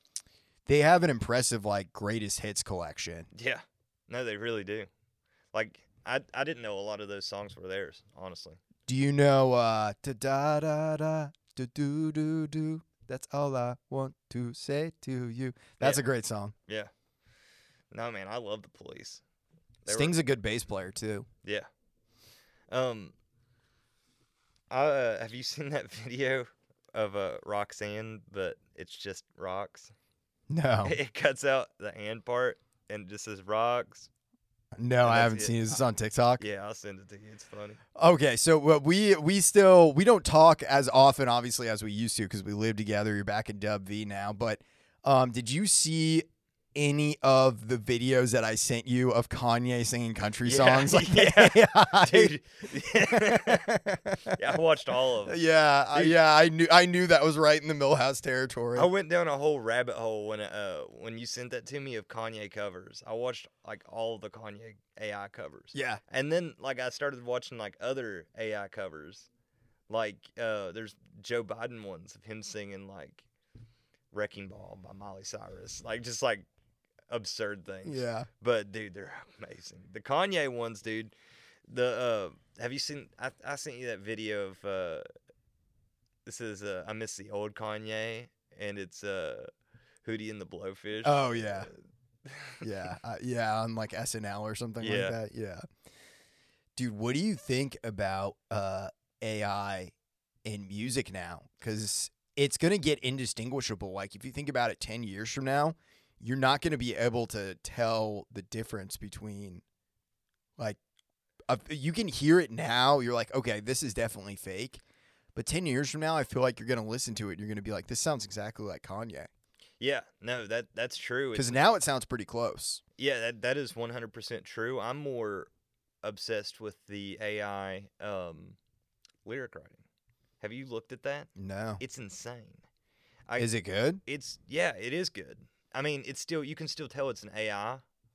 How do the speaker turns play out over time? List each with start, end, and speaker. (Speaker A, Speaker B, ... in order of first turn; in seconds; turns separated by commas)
Speaker A: 0.7-3.3, Speaker B: 3.3-4.9, Speaker B: 5.5-8.6, Speaker A: 8.9-16.6, Speaker B: 17.9-19.2, Speaker B: 19.8-20.1, Speaker A: 19.9-21.3, Speaker B: 22.7-23.1, Speaker B: 24.7-29.9, Speaker A: 30.5-31.0, Speaker B: 30.8-34.1, Speaker A: 34.8-36.4, Speaker B: 35.0-35.8, Speaker B: 36.4-37.8, Speaker A: 38.0-52.3, Speaker B: 50.4-55.4, Speaker A: 53.0-54.6, Speaker A: 55.3-58.9, Speaker B: 58.8-69.3, Speaker A: 65.7-66.0, Speaker B: 69.9-73.2, Speaker B: 74.1-76.5, Speaker B: 77.1-81.1, Speaker A: 77.8-78.3, Speaker B: 81.7-85.1, Speaker B: 86.3-89.5, Speaker B: 90.0-92.7, Speaker A: 91.0-91.7, Speaker A: 92.6-95.6, Speaker B: 94.8-95.2, Speaker A: 96.8-99.9, Speaker A: 100.5-109.6, Speaker A: 111.5-114.8, Speaker A: 115.3-119.3, Speaker B: 119.8-121.6, Speaker A: 121.3-122.8, Speaker B: 123.0-125.5, Speaker B: 126.0-128.6, Speaker B: 129.2-129.8, Speaker B: 130.4-131.3, Speaker A: 131.4-131.8, Speaker B: 131.8-132.6, Speaker B: 133.3-133.5, Speaker A: 133.4-134.0, Speaker B: 134.1-137.8